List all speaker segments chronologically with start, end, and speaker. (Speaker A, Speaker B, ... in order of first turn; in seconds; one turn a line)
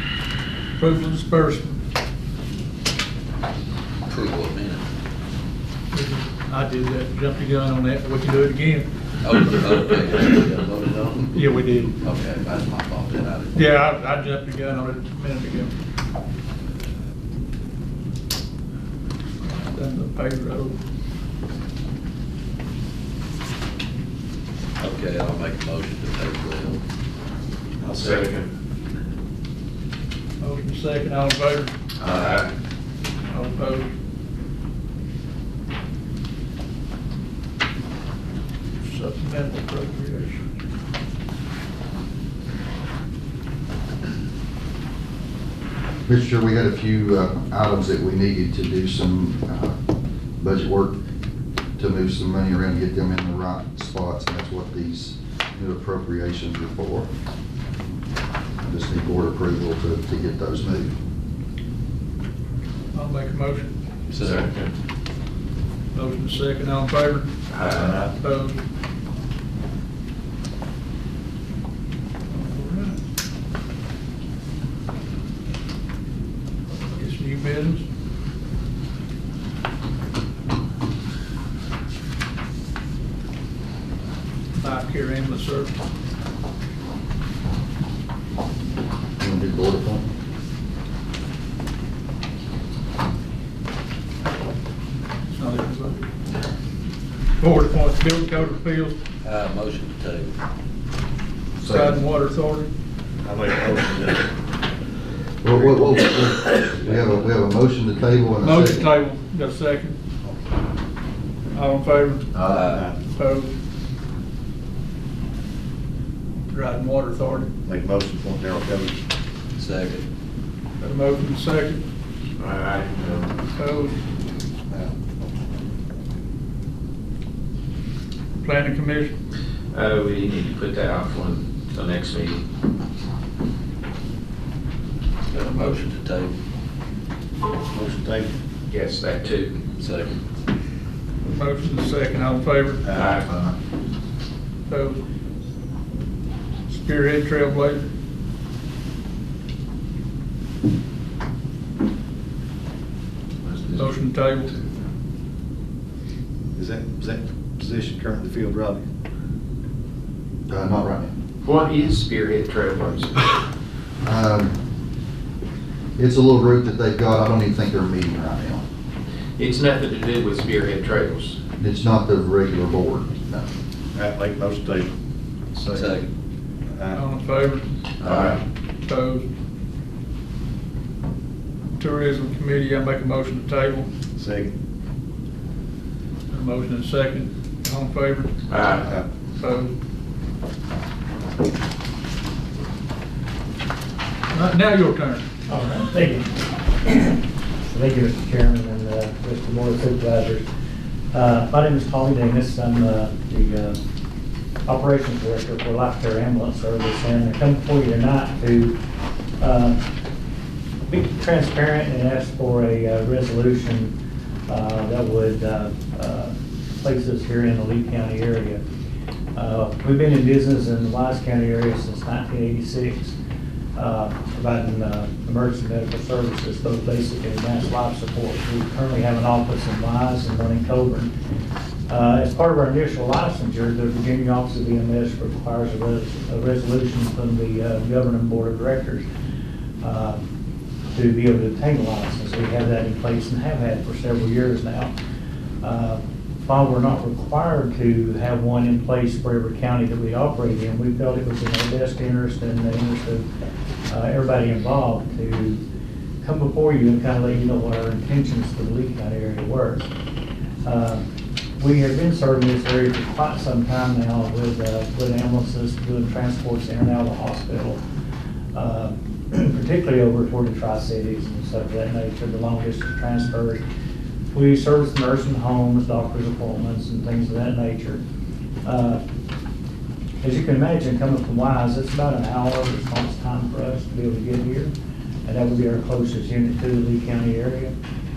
Speaker A: 0.8-1.8
Speaker B: 4.1-4.8
Speaker A: 5.9-8.9
Speaker B: 9.2-11.5
Speaker A: 11.3-11.9
Speaker B: 12.0-13.6
Speaker A: 13.5-15.7
Speaker A: 19.4-20.8
Speaker B: 24.8-26.8
Speaker C: 27.8-28.2
Speaker D: 27.9-28.5
Speaker A: 30.4-31.7
Speaker D: 32.0-32.5
Speaker A: 33.3-33.9
Speaker A: 38.8-40.4
Speaker E: 46.0-49.8
Speaker E: 50.4-51.0
Speaker E: 51.8-57.1
Speaker E: 58.6-61.0
Speaker A: 62.9-63.7
Speaker B: 64.1-64.5
Speaker D: 64.2-64.7
Speaker A: 65.9-67.3
Speaker D: 67.5-68.1
Speaker C: 67.7-68.1
Speaker A: 68.2-68.6
Speaker A: 72.3-73.0
Speaker A: 77.0-77.8
Speaker A: 84.6-85.7
Speaker E: 89.2-90.1
Speaker A: 95.3-96.0
Speaker A: 97.4-98.9
Speaker B: 99.2-100.3
Speaker A: 101.6-102.7
Speaker E: 101.7-102.0
Speaker C: 103.2-104.3
Speaker E: 105.4-108.9
Speaker C: 105.5-105.8
Speaker A: 108.4-110.0
Speaker A: 111.5-112.3
Speaker B: 112.4-112.9
Speaker C: 112.7-113.0
Speaker A: 113.2-113.5
Speaker A: 116.5-117.5
Speaker C: 117.6-119.0
Speaker B: 119.6-120.0
Speaker A: 120.8-121.8
Speaker D: 122.4-123.3
Speaker A: 123.6-124.0
Speaker C: 124.7-124.9
Speaker A: 128.4-129.2
Speaker D: 129.7-132.4
Speaker B: 135.3-136.3
Speaker A: 135.5-135.8
Speaker C: 137.7-138.3
Speaker D: 138.7-139.6
Speaker B: 139.8-140.2
Speaker A: 141.2-142.8
Speaker C: 142.8-143.2
Speaker D: 142.9-143.4
Speaker A: 144.7-145.0
Speaker A: 146.7-147.8
Speaker A: 153.8-154.5
Speaker C: 156.5-158.8
Speaker E: 160.5-161.1
Speaker D: 161.4-163.2
Speaker E: 164.0-164.6
Speaker E: 166.0-168.6
Speaker D: 169.4-171.4
Speaker E: 171.6-173.5
Speaker C: 173.9-174.9
Speaker C: 175.5-175.9
Speaker B: 175.7-176.1
Speaker C: 176.7-177.1
Speaker A: 176.9-177.7
Speaker D: 178.0-178.4
Speaker A: 178.8-179.3
Speaker A: 181.8-183.9
Speaker C: 184.2-184.5
Speaker A: 186.3-188.3
Speaker D: 188.5-188.9
Speaker C: 188.8-189.1
Speaker A: 189.4-189.7
Speaker A: 194.3-195.2
Speaker F: 195.5-196.3
Speaker F: 196.8-200.4
Speaker F: 201.1-203.8
Speaker F: 204.7-208.8
Speaker F: 209.4-209.8
Speaker F: 210.9-213.9
Speaker F: 214.5-218.6
Speaker F: 219.3-223.2
Speaker F: 223.7-231.1
Speaker F: 231.9-239.0
Speaker F: 239.8-240.2
Speaker F: 240.9-244.9
Speaker F: 245.6-253.2
Speaker F: 253.9-255.6
Speaker F: 256.2-259.9
Speaker F: 260.6-261.0
Speaker F: 261.6-267.8
Speaker F: 268.5-273.6
Speaker F: 274.3-278.0
Speaker F: 278.6-279.0
Speaker F: 280.2-284.7
Speaker F: 285.2-287.7